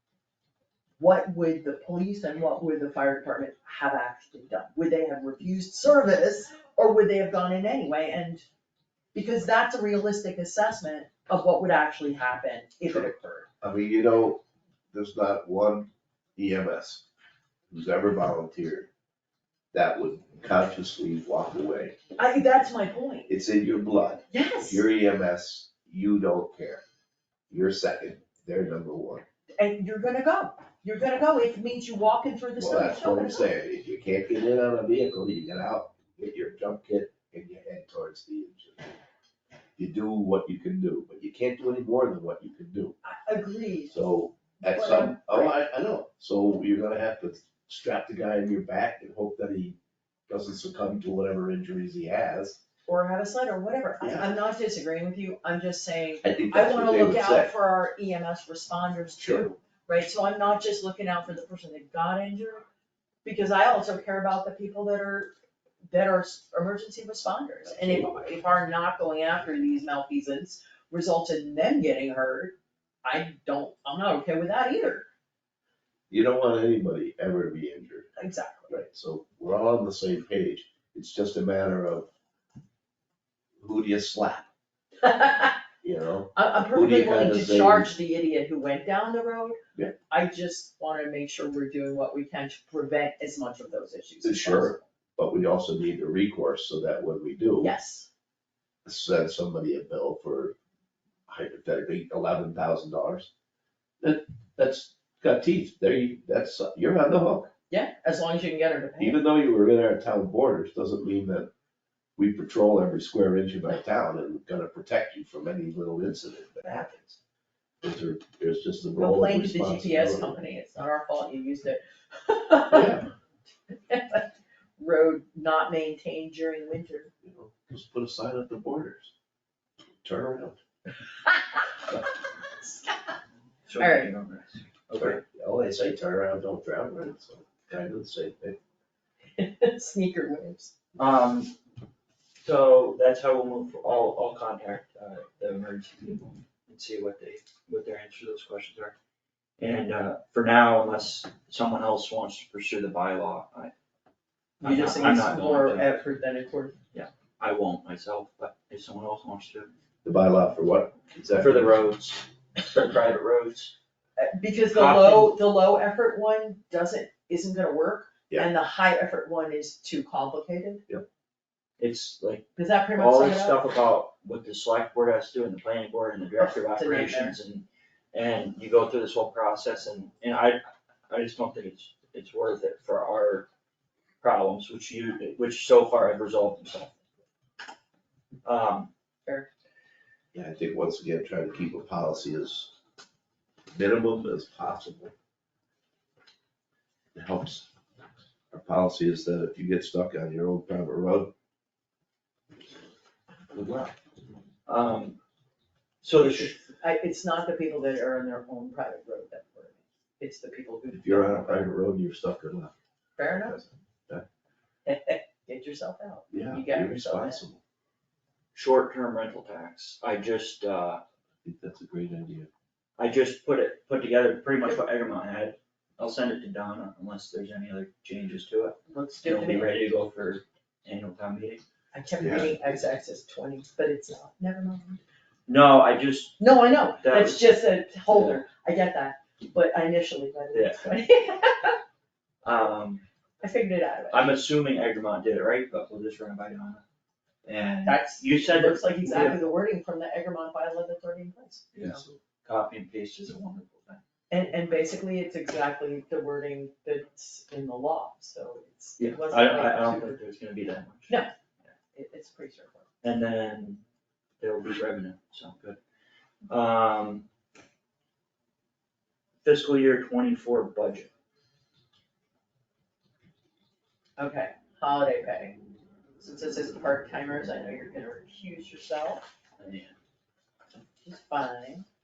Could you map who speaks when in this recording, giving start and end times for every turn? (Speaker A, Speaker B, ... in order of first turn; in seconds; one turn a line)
Speaker A: 1.0-8.4
Speaker A: 9.1-13.5
Speaker B: 13.6-17.1
Speaker B: 17.7-18.9
Speaker B: 19.7-22.0
Speaker A: 22.2-23.3
Speaker B: 23.3-26.8
Speaker A: 24.3-24.9
Speaker B: 27.5-29.2
Speaker A: 29.6-33.5
Speaker B: 32.6-38.9
Speaker B: 39.8-43.0
Speaker A: 43.0-44.0
Speaker B: 43.9-49.8
Speaker A: 44.6-45.5
Speaker B: 50.3-52.6
Speaker A: 52.9-62.7
Speaker B: 54.0-54.3
Speaker B: 56.2-57.5
Speaker B: 59.2-59.5
Speaker A: 63.2-65.3
Speaker A: 65.9-75.1
Speaker B: 67.7-68.1
Speaker B: 76.1-78.1
Speaker A: 78.2-78.7
Speaker B: 78.7-82.1
Speaker B: 83.6-84.5
Speaker A: 85.0-85.6
Speaker B: 85.8-87.9
Speaker A: 86.3-94.8
Speaker B: 94.2-97.7
Speaker A: 97.6-98.1
Speaker B: 98.8-100.5
Speaker B: 101.3-103.3
Speaker B: 104.0-107.5
Speaker A: 107.7-109.2
Speaker B: 109.0-111.5
Speaker B: 112.2-117.2
Speaker B: 117.8-120.4
Speaker A: 119.0-123.0
Speaker B: 122.7-123.1
Speaker A: 123.7-127.1
Speaker B: 127.2-129.1
Speaker B: 130.0-130.6
Speaker A: 132.6-133.1
Speaker C: 133.7-135.2
Speaker A: 133.8-134.1
Speaker B: 135.0-138.6
Speaker A: 139.4-140.7
Speaker C: 141.0-141.5
Speaker C: 142.4-148.9
Speaker C: 149.6-153.7
Speaker C: 154.6-155.9
Speaker A: 154.6-156.8
Speaker C: 156.9-159.7
Speaker B: 160.0-161.8
Speaker C: 161.3-163.7
Speaker A: 164.2-170.8
Speaker C: 164.7-165.4
Speaker C: 171.8-183.5
Speaker A: 172.6-173.6
Speaker A: 176.4-177.4
Speaker C: 184.2-187.0
Speaker C: 188.4-188.9
Speaker B: 190.3-192.7
Speaker B: 193.7-195.1
Speaker B: 197.1-197.7
Speaker B: 198.5-201.3
Speaker B: 203.5-203.9
Speaker C: 204.7-205.2
Speaker C: 206.0-206.6
Speaker A: 206.2-211.7
Speaker B: 210.9-212.7
Speaker A: 213.2-213.6
Speaker B: 213.3-214.2
Speaker A: 214.8-217.4
Speaker B: 216.3-217.6
Speaker C: 218.5-221.0
Speaker B: 221.4-222.5
Speaker C: 223.0-231.6
Speaker A: 228.9-229.8
Speaker A: 231.9-235.0
Speaker B: 232.2-232.6
Speaker C: 235.5-238.4
Speaker A: 236.4-241.8
Speaker C: 240.5-240.8
Speaker C: 242.4-243.0
Speaker A: 243.4-244.4
Speaker C: 244.1-246.8
Speaker C: 247.4-249.4
Speaker A: 247.9-251.7
Speaker C: 251.7-254.0
Speaker B: 251.8-252.2
Speaker A: 254.3-260.2
Speaker C: 259.0-261.7
Speaker A: 261.9-262.9
Speaker C: 263.0-263.8
Speaker C: 264.4-265.8
Speaker C: 266.5-267.2
Speaker C: 269.4-271.1
Speaker A: 274.2-275.6
Speaker A: 276.2-279.3
Speaker C: 279.6-280.0
Speaker A: 281.0-281.9